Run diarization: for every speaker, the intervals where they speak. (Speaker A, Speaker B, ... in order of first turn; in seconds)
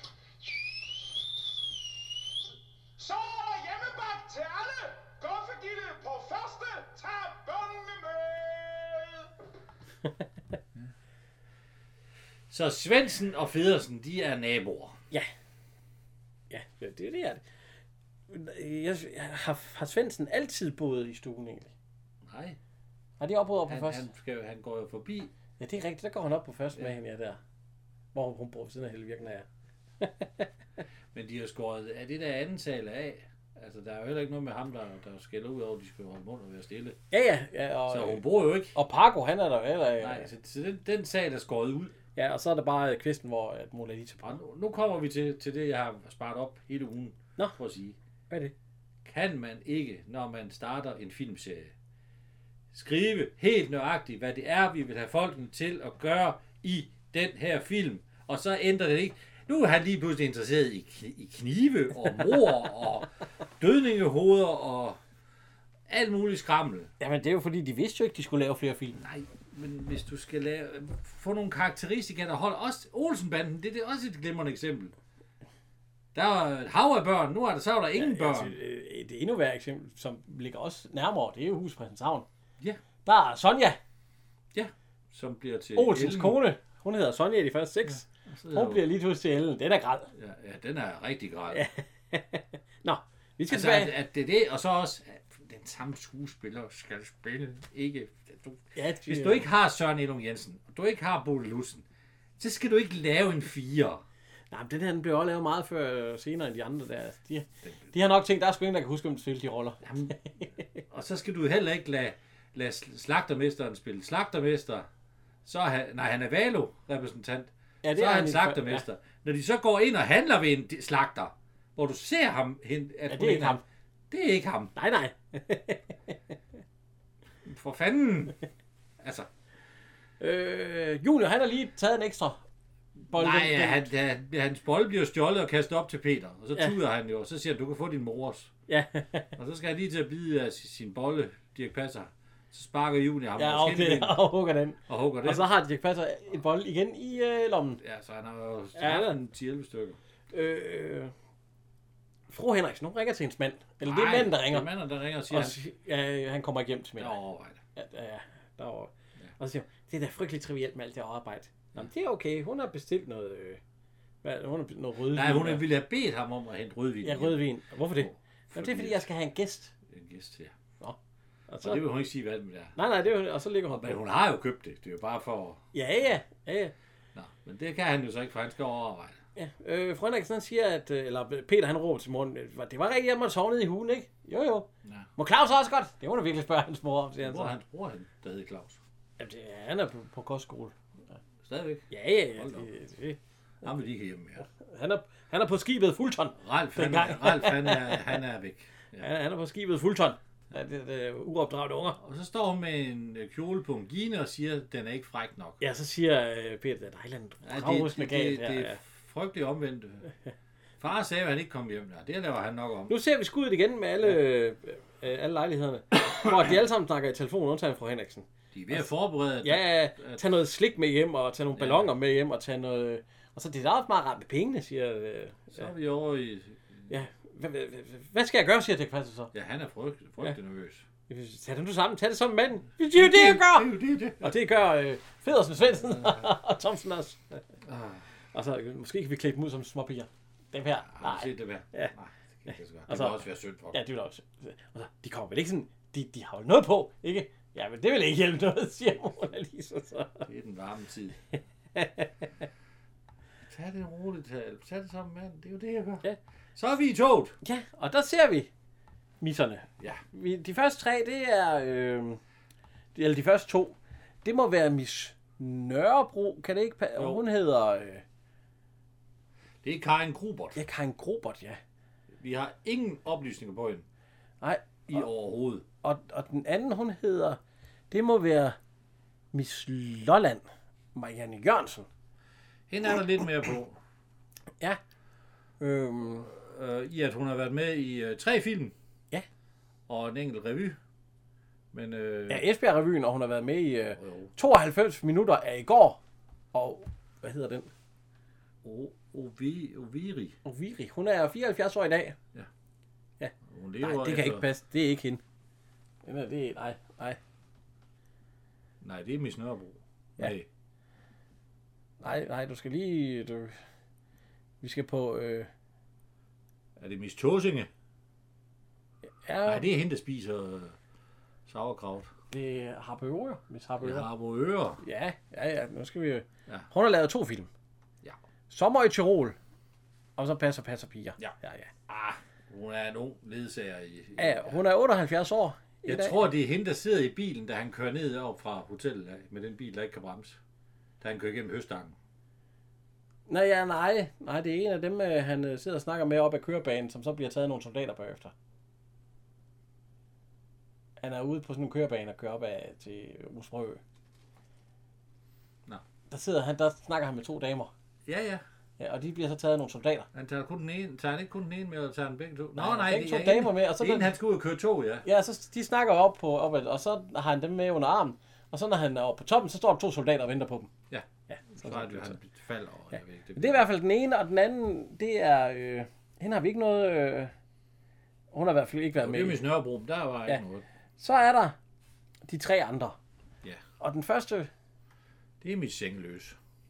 Speaker A: 3.0-9.2
Speaker B: 12.5-15.0, 22.2-22.6, 23.6-25.3, 31.1-37.0, 37.9-38.8, 40.0-41.9, 44.2-48.0, 49.0-51.7, 52.7-65.0, 65.9-66.9, 69.0-74.9, 76.1-78.5, 84.5-86.4, 88.3-88.9, 90.2-91.6, 93.5-101.8, 102.4-104.0, 107.6-107.9, 109.8-110.2, 110.9-114.9, 115.4-124.7, 127.4-128.3, 129.0-129.3, 133.1-138.5, 139.3-144.2, 144.9-145.5, 147.8-150.0, 153.8-155.6, 157.0-157.6, 165.1-169.1, 169.9-170.5, 171.6-172.8, 173.7-175.7, 177.1-179.2, 187.2-188.8, 191.4-192.7, 193.6-194.5, 196.4-199.1, 202.0-205.6, 207.4-210.1, 210.8-212.9, 218.5-220.2, 221.6-221.9, 225.5-226.9, 229.3-230.8, 232.9-234.3, 235.9-236.2, 237.6-238.0, 240.8-243.8, 250.2-251.2, 253.5-256.0, 256.6-257.4, 266.9-267.2, 269.6-270.6, 272.1-273.9, 274.9-275.6, 282.7-283.8, 286.2-288.7, 289.9-290.8, 291.7-292.5, 294.0-294.3, 298.6-300.4, 303.4-304.5, 308.8-310.5, 316.8-317.7, 319.4-320.8, 321.5-322.1, 323.8-324.8, 331.9-334.6, 335.8-340.4, 341.0-341.9, 358.1-358.4, 360.1-365.1, 370.9-373.7, 379.0-380.6, 385.4-386.4
Speaker C: 16.5-17.4, 18.3-21.7, 23.2-24.1, 25.6-27.4, 28.1-29.4, 30.0-30.5, 37.1-40.3, 42.1-44.4, 67.0-69.0, 77.9-82.2, 83.0-83.8, 85.8-90.1, 91.5-93.9, 98.7-99.5, 104.5-110.1, 117.8-118.8, 123.1-123.6, 124.8-126.1, 130.2-132.4, 133.1-133.9, 138.7-139.3, 143.4-147.8, 148.8-149.2, 150.3-151.1, 152.3-154.7, 155.3-157.2, 157.8-163.6, 164.2-165.7, 167.0-169.7, 171.5-171.8, 172.8-174.0, 175.7-176.7, 179.3-187.6, 189.2-190.7, 191.9-193.2, 194.5-198.1, 199.0-202.0, 205.6-208.8, 212.9-218.9, 219.4-225.7, 226.9-229.3, 231.1-237.4, 238.3-241.9, 242.9-243.2, 243.7-250.3, 251.7-252.2, 257.4-258.5, 259.2-262.2, 262.9-268.0, 270.6-271.6, 274.4-274.8, 275.8-277.4, 277.9-278.6, 279.3-281.9, 285.6-286.3, 292.3-296.0, 296.5-297.7, 300.4-302.1, 303.2-305.2, 306.0-307.2, 312.0-313.5, 314.6-315.5, 319.2-319.7, 322.3-324.1, 324.8-327.5, 328.5-329.4, 330.2-331.7, 334.2-336.2, 343.3-348.3, 351.0-353.8, 356.1-357.7, 358.8-360.1, 362.6-364.1, 365.0-370.7, 371.3-372.2, 373.4-377.3, 378.3-379.4, 381.0-381.6, 382.2-383.0, 383.8-384.5